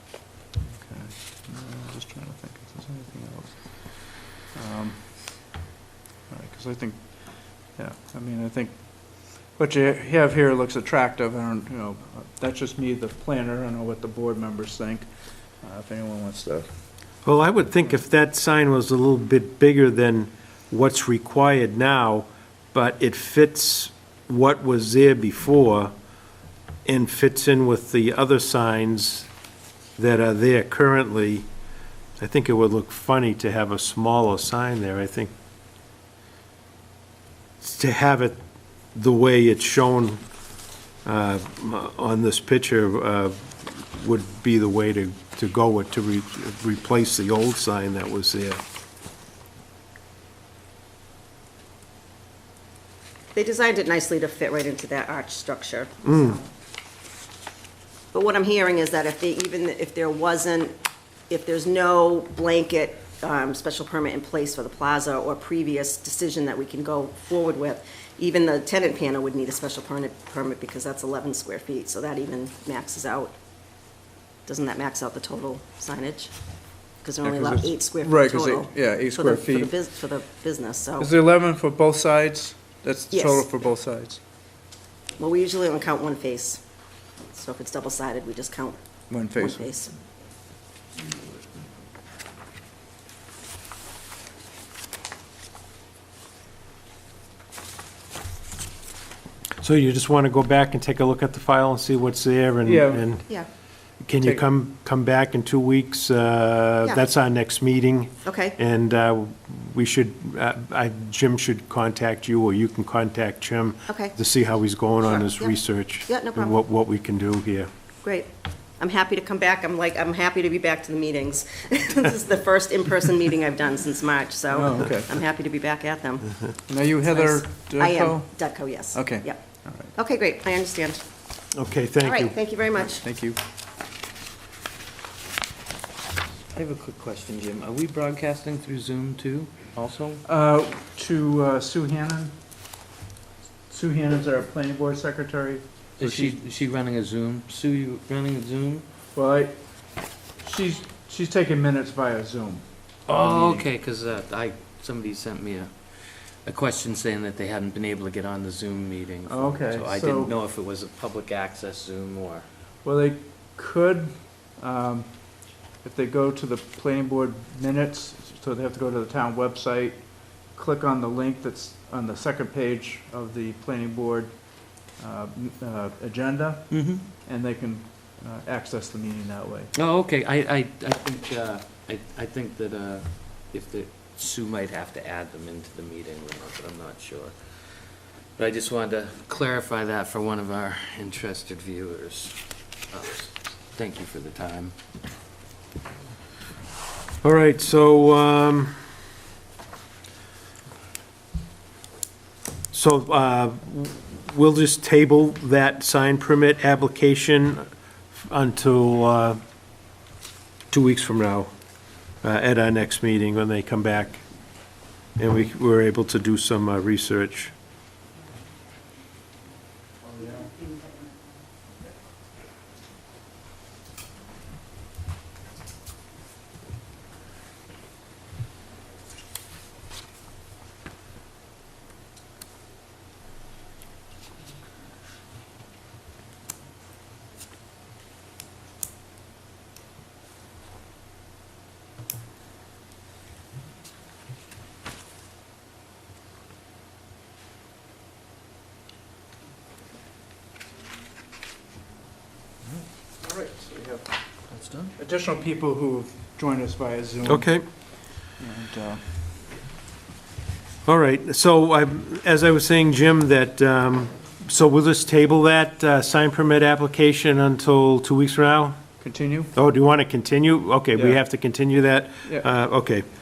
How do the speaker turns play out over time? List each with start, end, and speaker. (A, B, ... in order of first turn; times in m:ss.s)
0:00.7-0:05.6 A
0:06.3-0:15.1 A
0:15.6-0:16.7 A
0:17.2-0:25.9 B
0:26.8-0:29.3 B
0:30.0-0:31.5 B
0:32.2-0:35.3 B
0:37.6-0:38.4 B
0:38.9-0:40.2 B
0:41.0-0:48.6 B
0:53.4-0:56.4 C
0:56.0-0:56.4 B
0:58.1-1:00.8 C
1:01.3-1:13.3 C
1:14.5-1:16.3 C
1:17.0-1:21.1 C
1:17.2-1:19.7 A
1:21.0-1:24.2 A
1:23.1-1:23.5 C
1:25.2-1:26.6 C
1:27.3-1:28.8 C
1:29.1-1:29.6 A
1:29.3-1:29.9 C
1:39.6-1:43.4 B
1:42.6-1:43.0 A
1:44.0-1:57.7 B
1:48.2-1:48.6 C
1:53.9-1:54.2 C
1:55.0-1:56.6 C
1:58.0-2:06.4 C
2:04.5-2:05.1 A
2:06.7-2:09.9 A
2:07.1-2:11.0 C
2:11.5-2:12.4 B
2:12.0-2:13.0 C
2:13.0-2:13.4 A
2:16.5-2:20.2 D
2:20.2-2:22.3 A
2:23.7-2:26.4 A
2:26.0-2:28.8 D
2:29.1-2:29.6 A
2:30.4-2:33.7 A
2:33.1-2:42.5 D
2:39.2-2:40.3 A
2:42.8-2:59.7 A
2:56.7-2:57.0 D
2:59.7-3:14.8 D
3:17.2-3:18.8 B
3:22.7-3:29.4 B
3:30.7-3:31.5 B
3:32.2-3:34.2 B
3:35.2-3:37.5 B
4:13.2-4:14.1 A
4:14.5-4:14.9 D
4:15.0-4:17.6 A
4:17.2-4:17.6 B
4:18.4-4:19.1 A
4:20.8-4:28.8 B
4:29.0-4:29.5 A
4:29.6-4:33.1 B
4:31.0-4:31.2 A